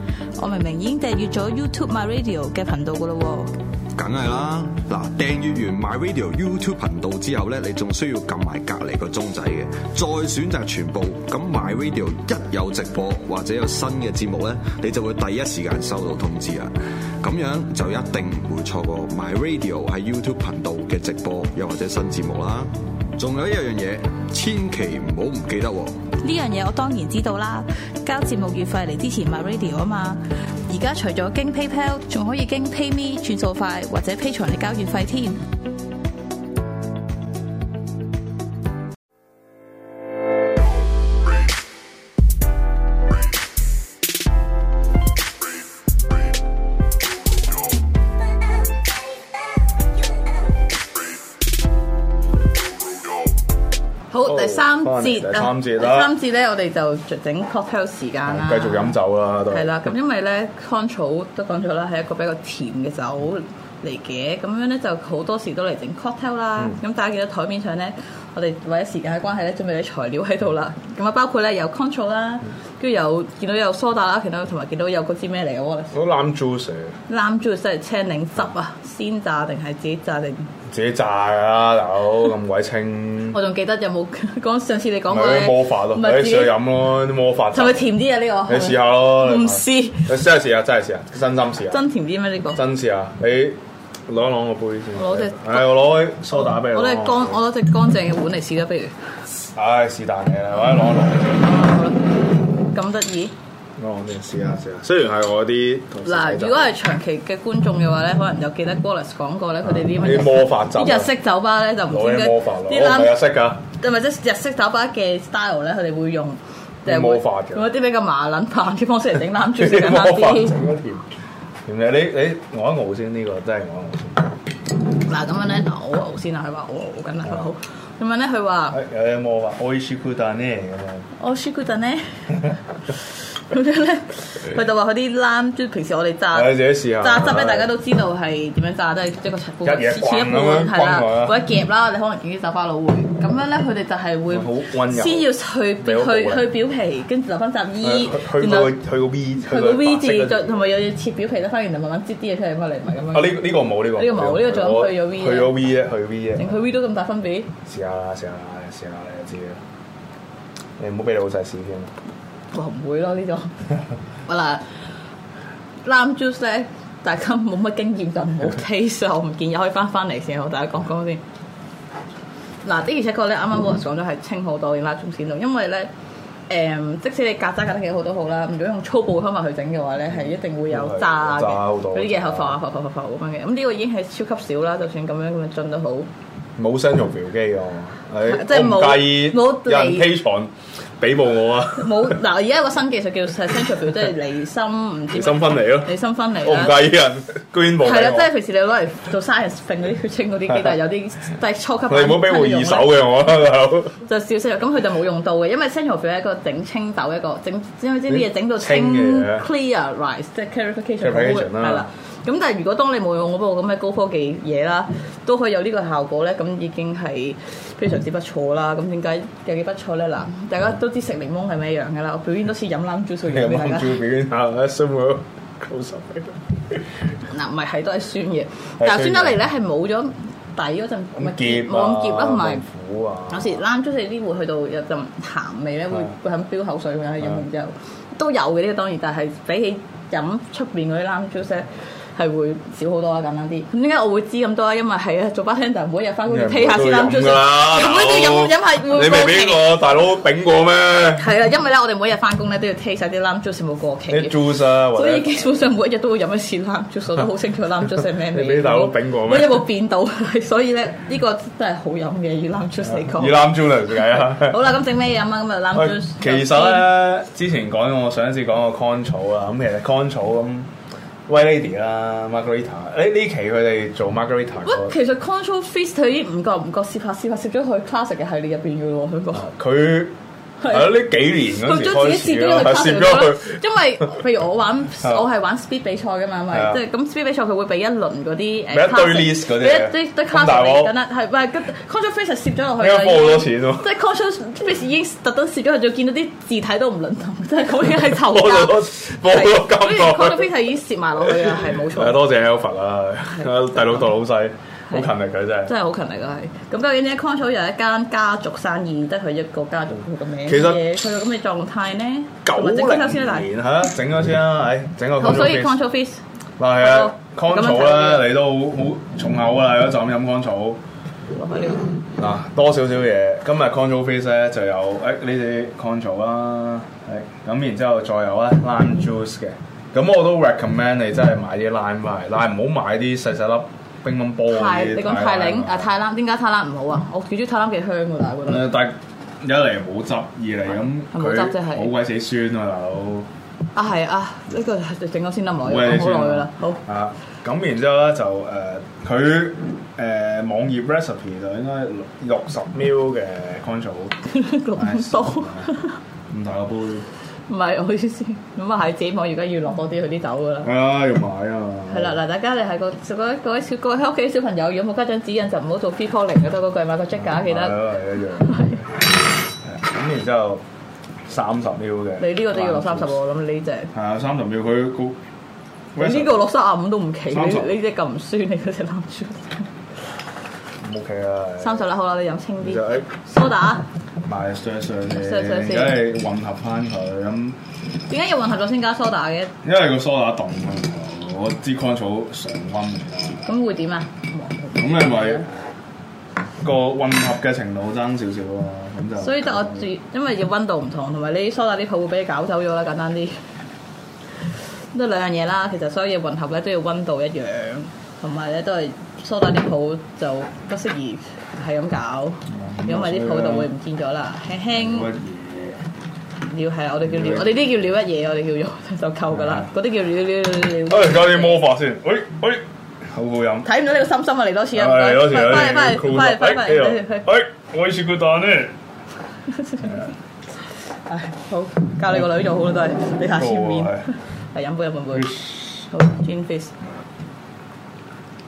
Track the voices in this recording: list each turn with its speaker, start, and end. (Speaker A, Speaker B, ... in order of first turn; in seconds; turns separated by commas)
Speaker A: 0.3-3.5, Speaker B: 4.0-26.0, Speaker A: 26.2-35.4, Speaker A: 54.1-59.0, Speaker C: 54.2-56.1, Speaker C: 58.2-59.9, Speaker A: 59.5-75.9, Speaker C: 75.9-76.9, Speaker A: 77.1-80.5, Speaker C: 80.7-83.4, Speaker A: 83.3-86.6, Speaker C: 85.1-87.9, Speaker A: 87.5-90.1, Speaker C: 88.5-91.8, Speaker A: 91.7-92.6, Speaker C: 92.5-97.4, Speaker A: 94.9-95.7, Speaker A: 96.3-98.9, Speaker C: 99.5-101.5, Speaker A: 101.4-103.3, Speaker C: 103.8-106.7, Speaker A: 106.0-120.5, Speaker C: 109.7-111.1, Speaker C: 111.9-113.6, Speaker C: 116.8-117.7, Speaker C: 119.6-121.0, Speaker C: 121.7-124.3, Speaker A: 125.0-128.8, Speaker C: 128.7-131.1, Speaker A: 131.2-132.3, Speaker A: 133.5-148.8, Speaker C: 136.3-137.7, Speaker C: 139.6-141.4, Speaker C: 144.3-145.3, Speaker C: 145.8-146.5, Speaker C: 147.8-150.7, Speaker A: 149.4-153.4, Speaker C: 153.1-156.6, Speaker A: 153.9-155.6, Speaker A: 156.3-157.5, Speaker C: 157.6-159.6, Speaker C: 160.8-161.9, Speaker A: 162.5-163.6, Speaker A: 164.2-164.7, Speaker A: 165.8-171.2, Speaker A: 172.6-175.9, Speaker A: 176.5-186.1, Speaker C: 180.7-182.6, Speaker C: 186.6-192.2, Speaker A: 188.2-190.1, Speaker A: 191.7-196.8, Speaker C: 195.1-198.3, Speaker A: 197.8-203.0, Speaker C: 201.9-204.0, Speaker A: 204.0-224.0, Speaker C: 208.1-209.4, Speaker C: 211.0-211.8, Speaker C: 223.3-226.8, Speaker A: 227.3-232.6, Speaker C: 228.8-229.4, Speaker C: 231.2-233.6, Speaker A: 233.3-249.7, Speaker C: 246.3-251.2, Speaker A: 251.1-266.9, Speaker C: 254.1-255.3, Speaker C: 258.3-259.6, Speaker C: 262.9-264.6, Speaker C: 265.7-270.7, Speaker C: 271.3-274.9, Speaker A: 274.6-279.5, Speaker C: 279.3-280.1, Speaker A: 280.6-280.9, Speaker C: 280.7-283.6, Speaker A: 281.5-302.2, Speaker C: 288.7-290.9, Speaker C: 292.8-293.9, Speaker C: 298.0-300.5, Speaker C: 301.2-305.7, Speaker A: 305.6-313.5, Speaker C: 310.5-310.8, Speaker C: 312.4-315.8, Speaker A: 315.2-316.2, Speaker C: 316.6-320.8, Speaker A: 316.8-318.3, Speaker A: 321.3-321.9, Speaker C: 322.2-335.9, Speaker A: 334.5-338.7, Speaker C: 338.5-343.3, Speaker A: 341.1-341.9, Speaker A: 343.7-346.8, Speaker C: 345.6-354.1, Speaker A: 354.2-356.0, Speaker C: 354.7-355.7, Speaker C: 356.3-357.1, Speaker A: 357.5-360.7, Speaker C: 360.6-362.2, Speaker A: 361.9-367.8, Speaker C: 367.2-368.9, Speaker A: 368.4-368.8, Speaker C: 369.6-370.6, Speaker C: 371.2-373.1, Speaker A: 372.2-373.9, Speaker C: 373.9-375.2, Speaker C: 375.9-376.4, Speaker A: 376.0-379.7, Speaker C: 377.3-377.7, Speaker C: 380.8-381.8, Speaker A: 381.6-383.8, Speaker C: 382.6-383.1, Speaker C: 384.2-387.6, Speaker A: 385.1-386.0, Speaker A: 388.1-389.5, Speaker C: 389.6-393.4, Speaker A: 393.4-395.5, Speaker C: 394.8-395.4, Speaker C: 396.6-399.8, Speaker A: 399.2-403.4, Speaker A: 404.9-415.1, Speaker C: 412.5-413.7, Speaker C: 414.7-415.8, Speaker A: 416.4-421.6, Speaker C: 417.1-417.6, Speaker C: 420.9-423.7, Speaker A: 423.6-427.2, Speaker C: 424.7-428.7, Speaker A: 429.6-430.0, Speaker A: 431.1-436.7, Speaker C: 433.3-434.1, Speaker C: 435.1-435.9